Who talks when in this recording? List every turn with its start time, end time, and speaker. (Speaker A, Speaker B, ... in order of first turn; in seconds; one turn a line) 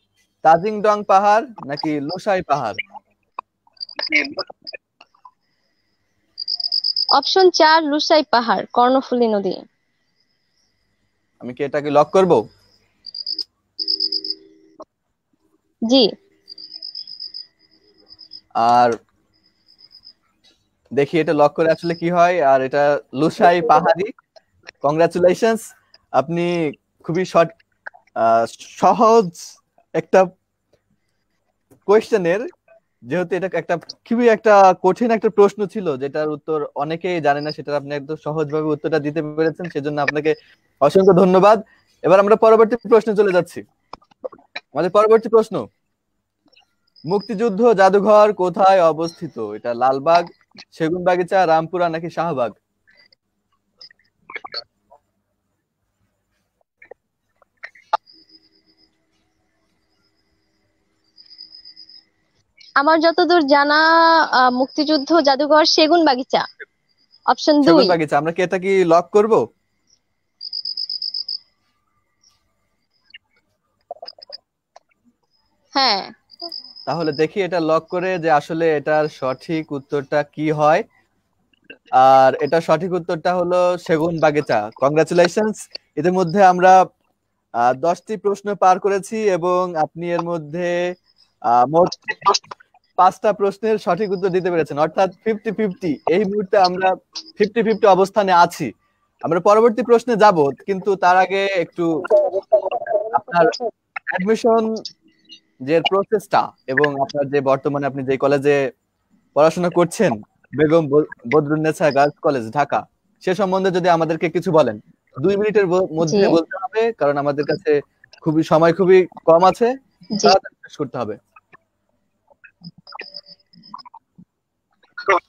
Speaker A: 0.5-2.8
Speaker B: 7.2-9.6
Speaker A: 11.4-12.4
Speaker A: 18.6-18.9
Speaker A: 21.0-24.1
Speaker A: 24.8-25.6
Speaker A: 26.2-27.5
Speaker A: 28.2-29.4
Speaker A: 30.0-30.3
Speaker A: 31.9-32.4
Speaker A: 33.1-43.6
Speaker A: 44.8-45.6
Speaker A: 47.1-52.6
Speaker B: 62.8-63.8
Speaker B: 64.4-66.5
Speaker B: 67.3-68.0
Speaker A: 67.6-69.4
Speaker B: 75.8-76.1
Speaker A: 76.9-80.8
Speaker A: 82.0-86.8
Speaker A: 87.6-90.8
Speaker A: 91.5-92.4
Speaker A: 93.0-98.7
Speaker A: 99.3-101.9
Speaker A: 103.1-103.5
Speaker A: 104.1-104.7
Speaker A: 105.7-108.6
Speaker A: 109.4-119.7
Speaker B: 116.0-116.4
Speaker A: 120.2-121.2